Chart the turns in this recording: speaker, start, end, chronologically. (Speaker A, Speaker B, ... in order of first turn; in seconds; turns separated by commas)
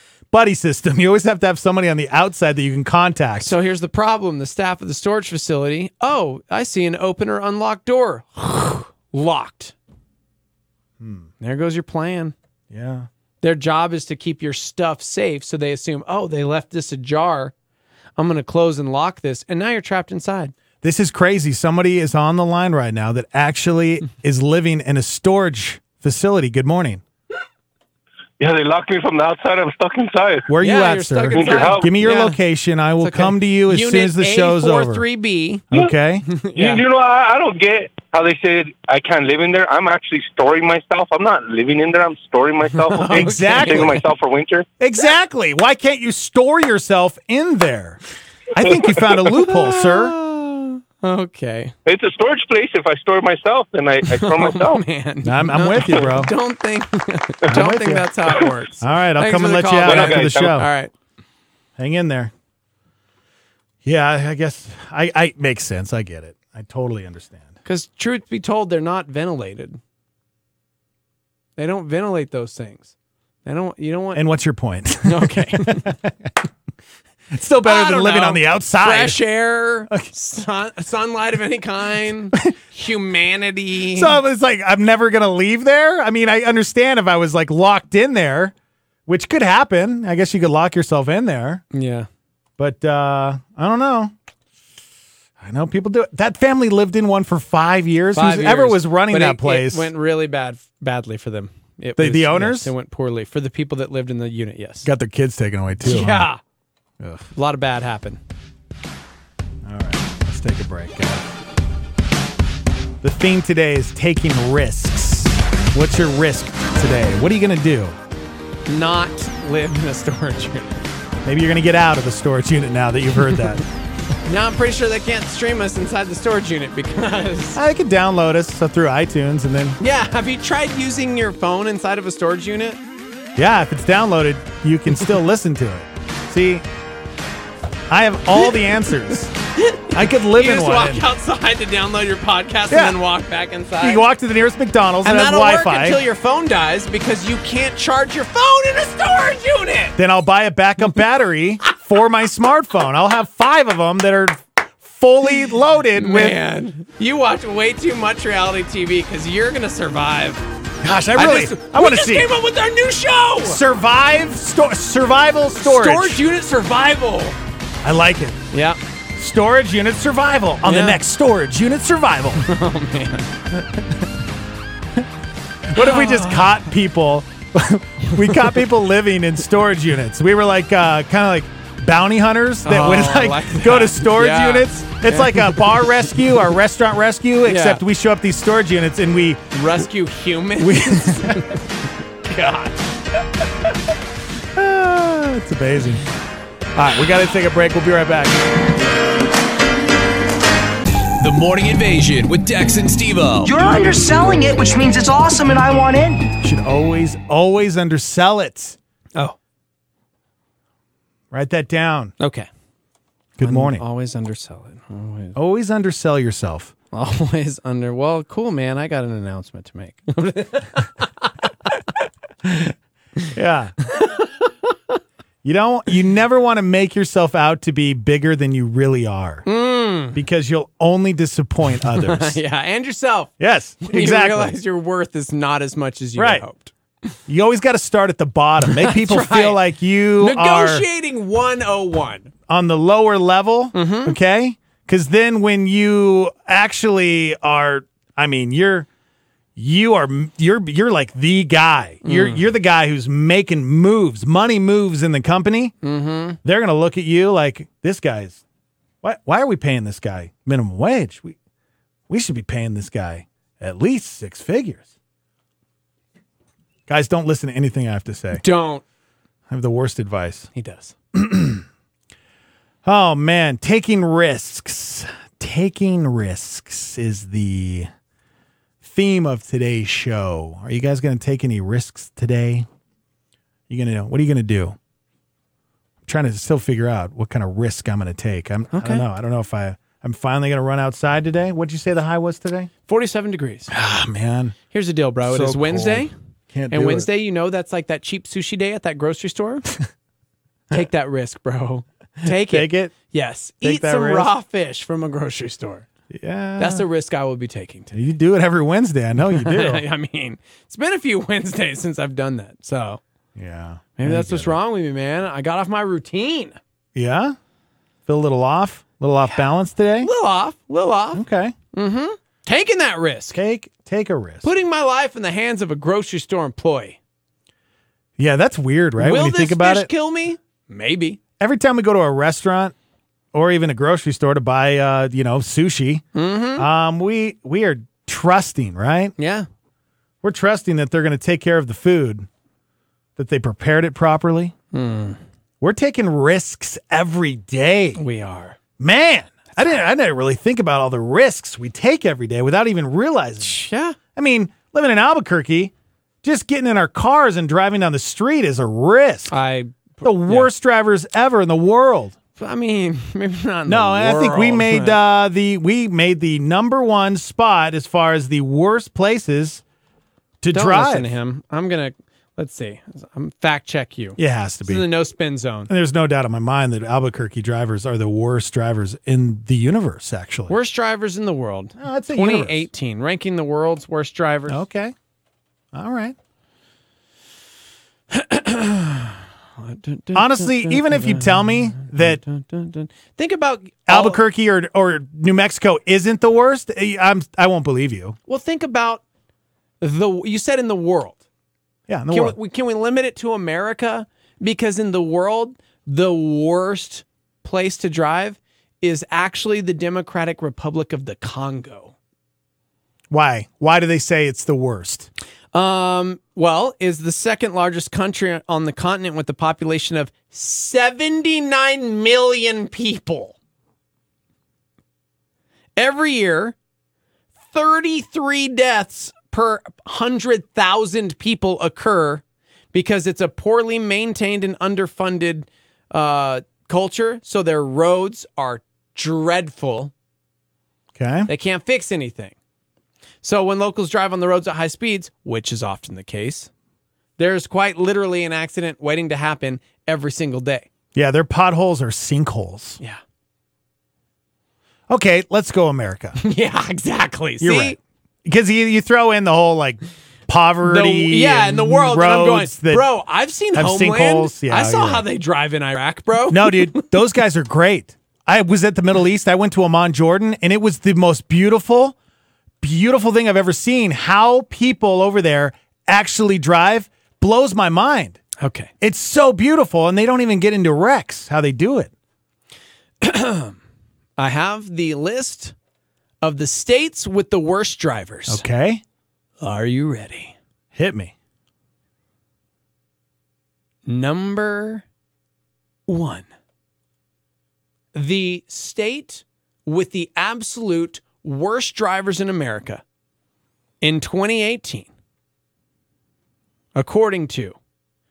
Speaker A: 0.3-3.6, Speaker B: 3.4-9.8, Speaker A: 11.0-11.3, Speaker B: 11.4-12.3, Speaker A: 12.7-13.1, Speaker B: 13.4-17.5, Speaker B: 18.2-20.5, Speaker A: 20.8-27.0, Speaker C: 28.4-30.5, Speaker A: 30.5-35.0, Speaker B: 30.6-32.4, Speaker C: 31.3-31.9, Speaker B: 33.0-35.6, Speaker A: 35.7-36.3, Speaker B: 36.3-36.8, Speaker C: 36.5-44.7, Speaker B: 42.8-44.0, Speaker A: 43.1-44.0, Speaker A: 44.8-48.0, Speaker A: 48.5-50.2, Speaker B: 49.3-51.7, Speaker C: 51.9-54.8, Speaker B: 54.1-60.9, Speaker A: 55.2-56.3, Speaker A: 57.5-58.1, Speaker A: 58.8-60.7, Speaker C: 59.8-60.6, Speaker A: 61.8-62.3, Speaker A: 63.8-67.5, Speaker B: 67.7-69.8, Speaker B: 71.6-72.9, Speaker B: 73.5-74.2, Speaker A: 74.2-76.3, Speaker B: 75.0-76.0, Speaker A: 77.3-79.2, Speaker B: 77.7-84.2, Speaker A: 83.9-88.5, Speaker A: 89.1-91.6, Speaker B: 91.7-92.1, Speaker A: 92.6-94.1, Speaker A: 95.4-99.9, Speaker B: 98.1-104.9, Speaker A: 102.0-102.7, Speaker A: 104.8-106.3, Speaker B: 105.8-106.4, Speaker A: 107.0-107.3, Speaker B: 107.3-108.2, Speaker A: 109.7-111.3, Speaker A: 113.0-118.0, Speaker B: 118.7-120.8, Speaker A: 121.2-123.6, Speaker B: 124.2-127.6, Speaker A: 127.6-129.8, Speaker B: 129.8-132.8, Speaker A: 133.4-136.7, Speaker A: 137.9-139.3, Speaker B: 139.6-144.1, Speaker A: 139.9-141.0, Speaker A: 142.7-143.0, Speaker A: 143.8-146.0, Speaker B: 145.0-150.0, Speaker A: 150.0-156.4, Speaker B: 156.0-160.4, Speaker A: 160.8-162.3, Speaker B: 161.2-163.6, Speaker A: 163.4-166.2, Speaker B: 165.6-167.4, Speaker A: 167.8-168.4, Speaker B: 168.5-168.8, Speaker A: 169.2-172.4, Speaker B: 170.7-171.0, Speaker B: 172.4-173.3, Speaker A: 173.6-173.9, Speaker A: 175.7-189.6, Speaker B: 175.7-176.6, Speaker B: 178.1-178.6, Speaker B: 182.7-186.3, Speaker B: 187.4-187.8, Speaker B: 189.5-191.6, Speaker A: 190.6-191.6, Speaker B: 192.3-192.9, Speaker A: 194.6-196.0, Speaker A: 196.8-198.5, Speaker D: 201.2-203.6, Speaker E: 203.4-206.3, Speaker A: 206.4-208.8, Speaker A: 211.3-212.1, Speaker B: 212.2-212.5, Speaker A: 213.4-213.8, Speaker B: 213.4-215.4, Speaker A: 215.4-216.7, Speaker B: 216.9-221.3, Speaker A: 223.3-223.8, Speaker B: 223.9-224.5, Speaker A: 225.4-229.5, Speaker B: 229.5-230.2, Speaker A: 230.1-232.4, Speaker B: 231.8-236.7, Speaker A: 233.4-234.6, Speaker A: 236.2-236.5, Speaker A: 237.3-240.9, Speaker B: 238.7-239.6, Speaker B: 240.2-242.3, Speaker A: 242.5-248.9, Speaker B: 243.7-244.2, Speaker A: 249.6-255.7, Speaker B: 252.0-252.4, Speaker B: 255.8-256.4, Speaker A: 256.4-258.4, Speaker A: 259.0-261.4, Speaker A: 262.1-264.9, Speaker A: 266.9-268.4, Speaker B: 268.3-268.8, Speaker A: 269.5-270.5, Speaker B: 270.6-270.9, Speaker A: 271.1-271.6, Speaker A: 272.8-277.9, Speaker A: 278.8-282.7, Speaker A: 283.7-284.8, Speaker A: 286.1-292.7, Speaker B: 288.7-289.1, Speaker B: 292.9-293.7, Speaker A: 293.7-294.6, Speaker B: 294.7-296.1, Speaker A: 295.2-297.1, Speaker B: 296.7-299.7, Speaker B: 300.7-305.9, Speaker A: 302.2-302.9, Speaker A: 303.6-304.3, Speaker A: 306.1-306.9, Speaker B: 306.6-307.9, Speaker A: 307.9-309.8, Speaker B: 309.3-313.0, Speaker A: 313.4-314.6, Speaker B: 314.0-316.6, Speaker A: 316.9-317.4, Speaker A: 318.1-320.1, Speaker B: 320.0-321.2, Speaker A: 321.1-321.6, Speaker B: 321.7-323.4, Speaker A: 323.3-324.5, Speaker B: 324.4-327.0, Speaker A: 328.2-329.9, Speaker B: 329.0-331.2, Speaker A: 331.4-332.8, Speaker A: 333.3-336.1, Speaker B: 336.1-336.7, Speaker A: 336.6-339.1, Speaker B: 339.2-339.5, Speaker A: 340.2-342.3, Speaker A: 343.2-344.5, Speaker B: 344.7-345.2, Speaker A: 345.6-348.0, Speaker B: 348.0-348.6, Speaker A: 348.8-353.6, Speaker B: 353.4-354.0, Speaker A: 354.1-355.7, Speaker A: 356.2-359.4, Speaker B: 359.3-360.5, Speaker A: 360.0-362.2, Speaker B: 362.4-365.0, Speaker A: 363.7-369.6, Speaker A: 370.4-371.1, Speaker B: 370.5-375.7, Speaker A: 374.2-374.9, Speaker A: 375.7-380.6, Speaker B: 380.5-384.6, Speaker A: 381.8-382.7, Speaker A: 384.5-384.9, Speaker A: 385.7-386.2, Speaker B: 388.1-394.2, Speaker A: 390.1-392.2, Speaker A: 393.9-398.2, Speaker B: 398.3-399.0, Speaker B: 399.8-401.2, Speaker A: 401.9-402.4, Speaker B: 402.1-411.9, Speaker A: 413.1-415.1, Speaker B: 415.5-423.4, Speaker B: 425.8-426.6, Speaker B: 427.5-439.9, Speaker A: 441.0-441.3, Speaker B: 441.3-442.4, Speaker B: 443.2-446.5, Speaker B: 447.2-450.7, Speaker A: 450.9-452.8, Speaker A: 454.9-456.2, Speaker B: 456.2-457.8, Speaker A: 457.4-462.9, Speaker B: 460.6-466.9, Speaker A: 463.5-465.1, Speaker A: 466.3-471.9, Speaker A: 472.6-478.2, Speaker B: 478.4-478.7, Speaker A: 478.8-481.9, Speaker B: 483.0-483.6, Speaker B: 484.2-485.5, Speaker B: 486.2-488.5, Speaker A: 488.3-488.8, Speaker B: 489.4-490.4, Speaker A: 490.7-491.1, Speaker B: 493.9-494.9, Speaker B: 495.9-496.3, Speaker B: 497.9-502.8, Speaker B: 503.8-504.9, Speaker B: 506.8-507.6